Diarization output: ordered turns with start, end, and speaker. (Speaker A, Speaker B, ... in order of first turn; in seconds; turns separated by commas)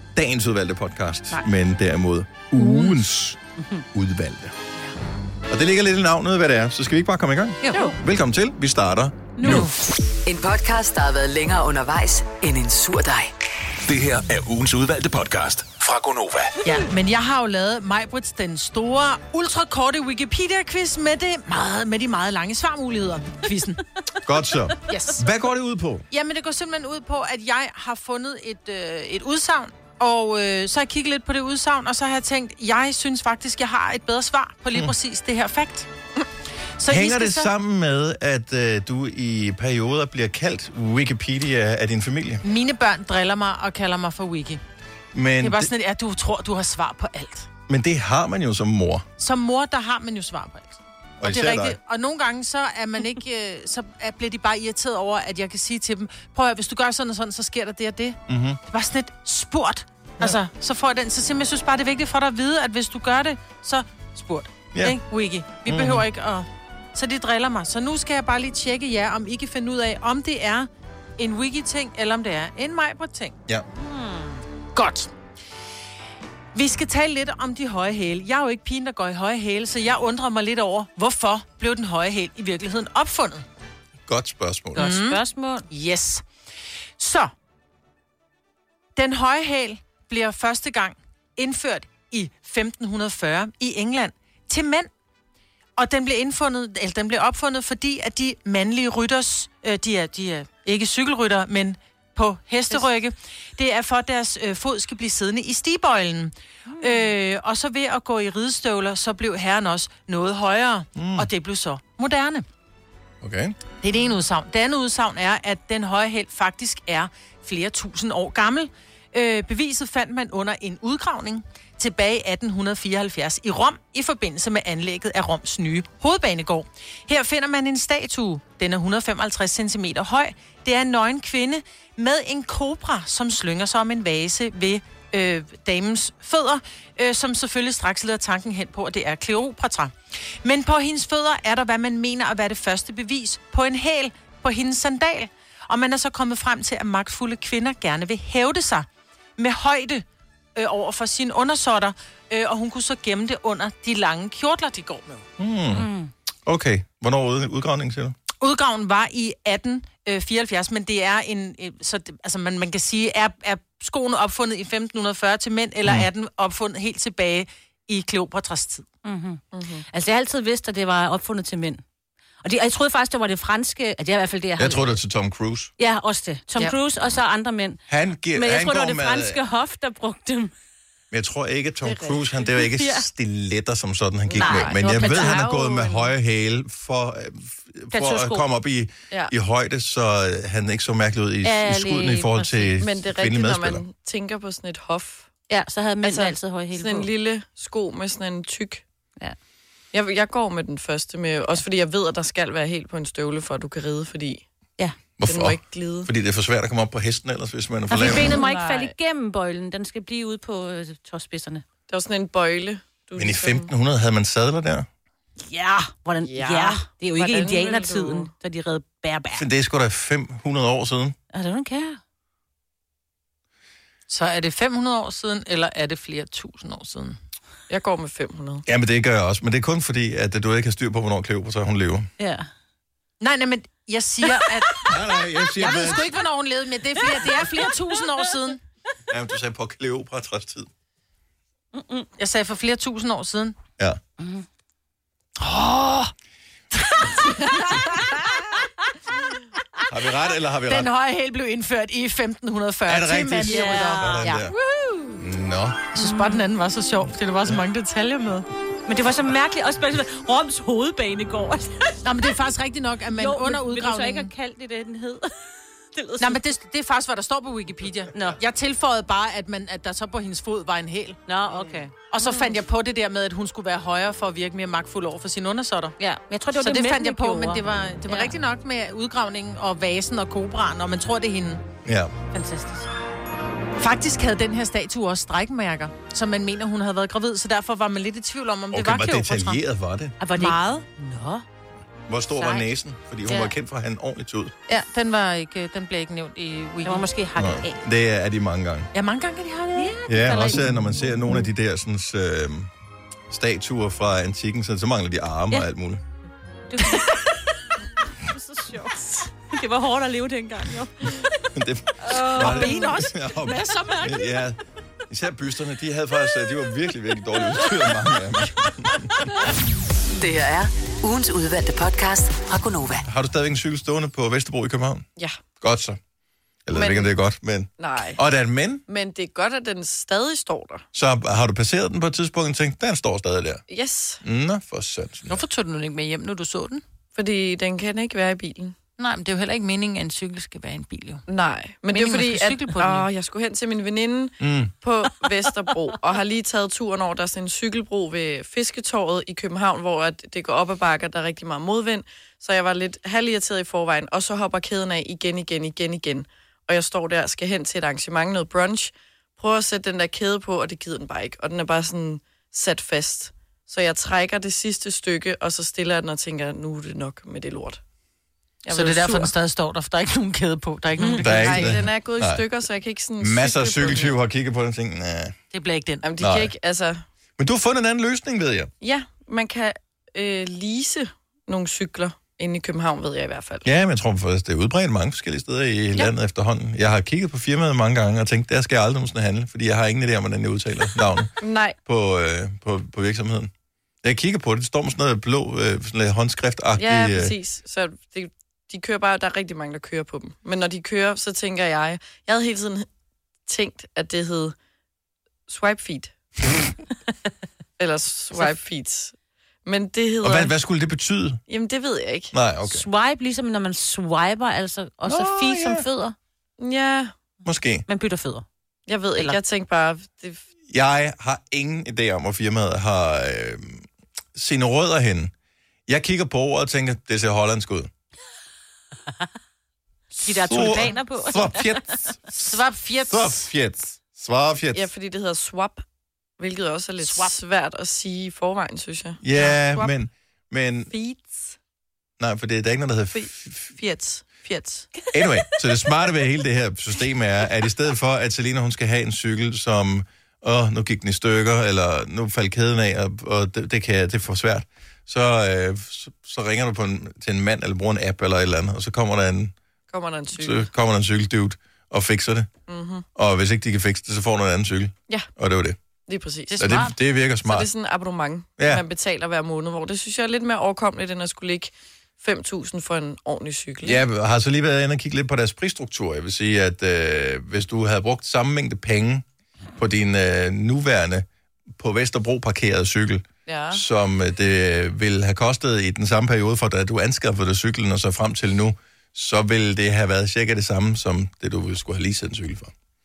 Speaker A: 0.1-3.4, Speaker B: 2.6-2.9, Speaker A: 3.9-4.5, Speaker A: 5.5-9.7, Speaker B: 7.6-7.9, Speaker B: 9.4-9.7, Speaker C: 10.3-13.3, Speaker D: 13.9-16.5, Speaker B: 16.6-23.8, Speaker A: 24.2-26.1, Speaker B: 24.9-25.3, Speaker B: 26.1-35.9, Speaker B: 36.8-37.5, Speaker A: 36.9-42.4, Speaker B: 42.4-44.6, Speaker A: 45.1-45.7, Speaker B: 45.4-47.5, Speaker A: 47.7-49.1, Speaker B: 49.2-73.4, Speaker A: 51.2-51.8, Speaker A: 58.3-58.6, Speaker A: 64.7-65.0, Speaker A: 65.7-66.1, Speaker E: 73.8-74.4, Speaker B: 74.8-75.1, Speaker B: 76.5-83.5, Speaker A: 84.1-84.9, Speaker E: 84.8-85.7, Speaker B: 84.8-86.2, Speaker B: 87.0-87.3, Speaker B: 89.0-94.9, Speaker B: 95.8-112.5, Speaker E: 106.7-107.1, Speaker A: 111.0-111.3, Speaker A: 113.2-113.6, Speaker B: 113.8-150.1, Speaker B: 150.6-155.2, Speaker A: 155.4-155.9, Speaker E: 155.7-156.1, Speaker A: 156.5-158.2, Speaker B: 158.4-168.8, Speaker E: 169.0-171.8, Speaker F: 169.5-169.9, Speaker E: 172.4-175.0, Speaker A: 174.6-175.7, Speaker E: 175.8-177.8, Speaker A: 177.9-179.4, Speaker E: 178.3-180.5, Speaker A: 181.1-193.8, Speaker E: 182.6-183.1, Speaker F: 184.3-186.1, Speaker E: 184.3-185.5, Speaker E: 187.9-188.5, Speaker E: 191.4-192.8, Speaker F: 192.8-195.3, Speaker E: 195.5-197.1, Speaker F: 196.0-198.8, Speaker F: 199.9-204.4, Speaker A: 205.2-208.4, Speaker F: 205.2-206.1, Speaker E: 207.9-211.6, Speaker F: 207.9-208.9, Speaker F: 211.9-213.7, Speaker A: 213.2-214.9, Speaker E: 215.5-219.4, Speaker F: 216.2-218.3, Speaker A: 219.3-221.2, Speaker E: 221.3-222.0, Speaker B: 224.1-227.2, Speaker F: 227.7-228.7, Speaker A: 228.7-232.1, Speaker B: 233.2-234.9, Speaker A: 234.9-236.1, Speaker B: 235.6-238.6, Speaker E: 237.2-237.7, Speaker A: 239.1-240.7, Speaker E: 241.8-242.1, Speaker B: 242.2-243.6, Speaker E: 244.2-244.5, Speaker B: 245.4-246.1, Speaker B: 246.8-247.9, Speaker A: 249.9-250.9, Speaker B: 250.7-255.0, Speaker A: 252.9-254.5, Speaker E: 253.4-254.5, Speaker A: 255.2-255.8, Speaker B: 255.9-258.5, Speaker E: 256.0-256.4, Speaker E: 258.9-262.0, Speaker B: 262.0-264.3, Speaker E: 263.2-265.3, Speaker E: 265.9-266.5, Speaker B: 266.2-271.2, Speaker E: 271.3-272.6, Speaker B: 272.1-276.0, Speaker E: 276.0-278.3, Speaker B: 276.6-281.6, Speaker A: 281.9-282.1, Speaker B: 282.3-282.9, Speaker B: 283.8-289.6, Speaker A: 288.7-290.2, Speaker E: 290.2-291.4, Speaker B: 290.3-290.9, Speaker A: 292.1-294.5, Speaker E: 292.4-292.7, Speaker B: 294.7-297.1, Speaker E: 296.9-297.8, Speaker A: 297.4-298.9, Speaker B: 298.9-300.6, Speaker E: 299.8-300.6, Speaker A: 300.1-302.7, Speaker A: 303.3-306.0, Speaker E: 306.7-307.4, Speaker E: 308.3-311.4, Speaker A: 311.5-314.6, Speaker E: 312.1-313.0, Speaker B: 312.2-314.0, Speaker E: 313.8-314.2, Speaker A: 315.1-319.3, Speaker C: 320.2-323.1, Speaker A: 323.1-325.1, Speaker A: 325.6-326.0, Speaker A: 326.7-328.8, Speaker F: 326.7-327.1, Speaker F: 327.8-328.2, Speaker F: 328.9-330.8, Speaker A: 330.9-333.6, Speaker F: 333.7-334.2, Speaker A: 334.2-335.4, Speaker B: 335.3-336.8, Speaker F: 337.1-338.8, Speaker B: 339.0-341.2, Speaker F: 341.3-367.8, Speaker B: 341.9-343.1, Speaker A: 344.4-344.7, Speaker F: 368.6-369.3, Speaker B: 368.7-371.7, Speaker E: 371.0-371.3, Speaker A: 371.2-372.4, Speaker F: 371.4-374.1, Speaker A: 373.2-375.4, Speaker B: 375.5-376.0, Speaker F: 376.0-377.1, Speaker A: 376.2-376.5, Speaker A: 377.4-378.7, Speaker F: 378.8-383.7, Speaker A: 383.6-391.3, Speaker F: 391.4-391.8, Speaker A: 391.9-393.5, Speaker A: 394.0-397.4, Speaker F: 396.8-402.9, Speaker F: 403.5-404.6, Speaker F: 405.5-406.1, Speaker F: 407.8-410.5, Speaker A: 410.2-411.4, Speaker F: 411.5-412.3, Speaker A: 412.3-412.9, Speaker E: 412.7-416.1, Speaker A: 415.1-415.9, Speaker F: 416.6-417.1, Speaker A: 417.4-417.9, Speaker E: 417.9-418.4, Speaker F: 418.9-420.4, Speaker A: 420.7-425.3, Speaker A: 425.9-427.9, Speaker E: 430.2-431.8, Speaker B: 430.2-430.9, Speaker A: 430.3-432.2, Speaker B: 432.3-433.4, Speaker A: 433.1-434.9, Speaker F: 434.7-435.8, Speaker F: 436.4-439.2, Speaker B: 437.0-437.3, Speaker A: 439.2-440.9, Speaker F: 440.9-441.6, Speaker A: 442.2-443.7, Speaker F: 443.1-445.0, Speaker A: 445.1-459.6, Speaker F: 459.9-460.7, Speaker A: 460.4-462.5, Speaker F: 462.7-463.1, Speaker A: 463.2-465.8, Speaker F: 466.1-466.8, Speaker B: 466.5-467.0, Speaker A: 466.6-467.7, Speaker F: 467.4-474.0, Speaker A: 468.6-468.8, Speaker A: 473.8-479.2, Speaker A: 479.8-481.3, Speaker A: 481.8-492.7, Speaker F: 483.5-483.8